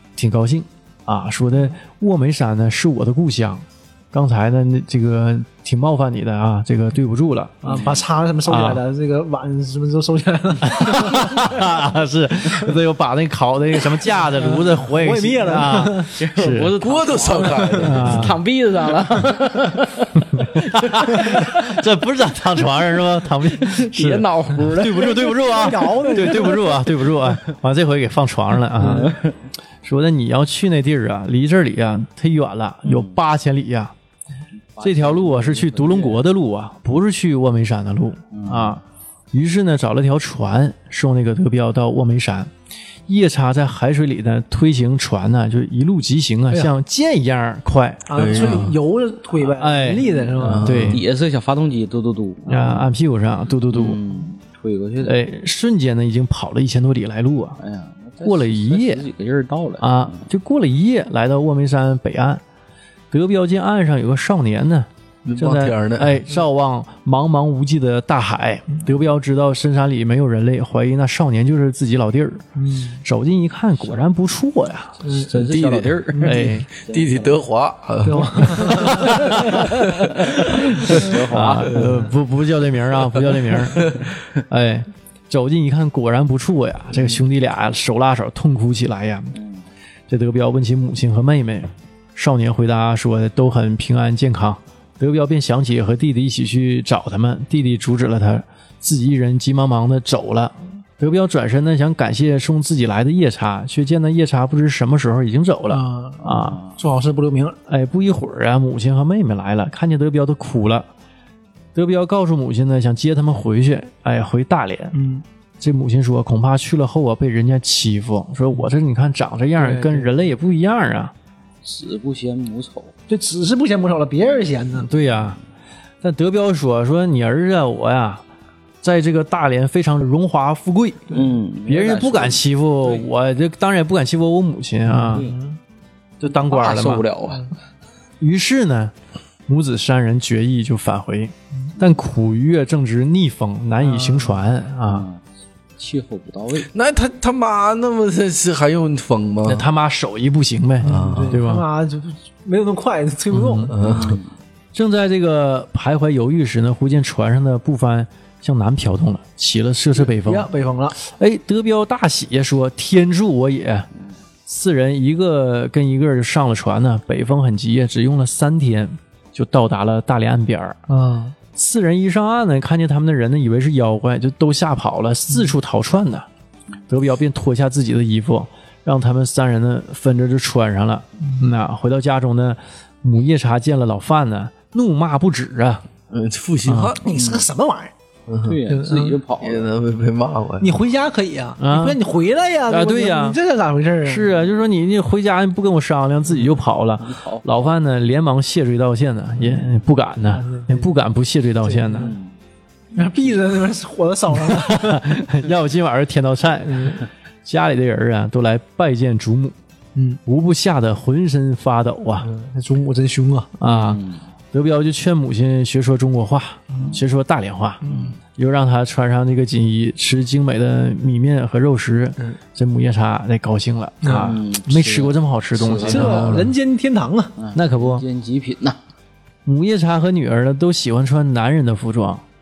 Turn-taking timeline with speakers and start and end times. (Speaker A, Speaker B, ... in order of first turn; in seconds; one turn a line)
Speaker A: 0.1-7.6
Speaker B: 7.6-11.4
Speaker C: 7.6-8.0
Speaker A: 8.4-8.8
Speaker A: 10.6-16.7
Speaker B: 14.3-16.1
Speaker C: 16.1-21.8
Speaker D: 16.8-18.2
Speaker A: 17.8-18.4
Speaker A: 20.2-29.2
Speaker C: 23.5-26.6
Speaker B: 25.2-26.7
Speaker B: 28.8-29.1
Speaker C: 28.8-29.3
Speaker A: 29.8-33.9
Speaker C: 32.9-33.1
Speaker C: 34.8-36.2
Speaker A: 34.8-42.5
Speaker C: 38.3-38.8
Speaker A: 43.1-48.6
Speaker B: 48.1-50.7
Speaker D: 48.1-48.7
Speaker A: 49.5-50.1
Speaker C: 50.0-52.9
Speaker D: 50.4-51.0
Speaker A: 50.6-51.0
Speaker A: 52.5-54.0
Speaker C: 53.7-55.2
Speaker A: 55.0-57.6
Speaker C: 57.6-60.2
Speaker A: 58.2-59.0
Speaker A: 59.8-62.4
Speaker A: 63.1-72.4
Speaker D: 65.2-66.2
Speaker B: 72.5-73.0
Speaker A: 73.0-75.0
Speaker B: 75.0-75.3
Speaker C: 75.1-77.4
Speaker D: 75.3-76.3
Speaker B: 76.1-76.5
Speaker A: 76.2-76.7
Speaker D: 76.9-80.1
Speaker B: 78.0-79.2
Speaker C: 78.8-81.8
Speaker A: 79.2-79.6
Speaker D: 80.7-81.0
Speaker A: 81.3-84.0
Speaker D: 81.6-82.1
Speaker A: 84.5-89.4
Speaker C: 89.3-89.6
Speaker A: 90.1-106.6
Speaker B: 105.7-107.6
Speaker C: 106.3-106.7
Speaker A: 107.7-110.9
Speaker A: 111.7-114.9
Speaker B: 114.9-115.2
Speaker A: 115.6-121.1
Speaker B: 119.6-120.2
Speaker C: 121.6-122.9
Speaker B: 123.1-124.9
Speaker A: 124.8-125.4
Speaker A: 126.0-128.2
Speaker A: 128.8-135.3
Speaker C: 131.1-133.1
Speaker B: 134.9-135.6
Speaker C: 135.1-135.4
Speaker A: 136.2-137.1
Speaker C: 136.3-137.5
Speaker A: 138.2-138.9
Speaker A: 139.5-145.0
Speaker B: 143.8-144.4
Speaker C: 144.8-145.2
Speaker C: 145.8-146.7
Speaker D: 146.7-149.7
Speaker A: 149.4-151.6
Speaker B: 150.8-153.9
Speaker D: 150.8-151.4
Speaker A: 153.3-153.8
Speaker D: 153.7-154.2
Speaker C: 153.8-154.3
Speaker A: 154.7-163.9
Speaker B: 160.0-160.9
Speaker A: 164.5-170.8
Speaker B: 170.9-171.3
Speaker A: 171.6-176.2
Speaker A: 176.9-185.8
Speaker D: 186.1-187.4
Speaker A: 186.7-186.9
Speaker B: 187.0-187.9
Speaker D: 188.3-188.6
Speaker C: 188.4-189.7
Speaker B: 188.7-189.2
Speaker D: 189.4-190.7
Speaker B: 190.6-194.3
Speaker A: 191.6-192.0
Speaker A: 192.7-193.4
Speaker A: 194.0-202.1
Speaker C: 197.0-197.7
Speaker B: 200.3-200.9
Speaker B: 201.7-202.1
Speaker C: 201.9-202.3
Speaker B: 202.9-205.0
Speaker A: 204.4-209.6
Speaker B: 206.7-207.0
Speaker B: 209.9-210.2
Speaker A: 210.2-212.3
Speaker B: 212.2-213.5
Speaker A: 213.6-217.8
Speaker C: 213.6-214.2
Speaker B: 217.8-218.1
Speaker C: 217.8-218.1
Speaker A: 218.3-226.5
Speaker B: 224.0-224.3
Speaker C: 224.1-226.4
Speaker B: 225.8-227.3
Speaker C: 227.4-228.8
Speaker A: 227.5-228.0
Speaker A: 229.4-232.2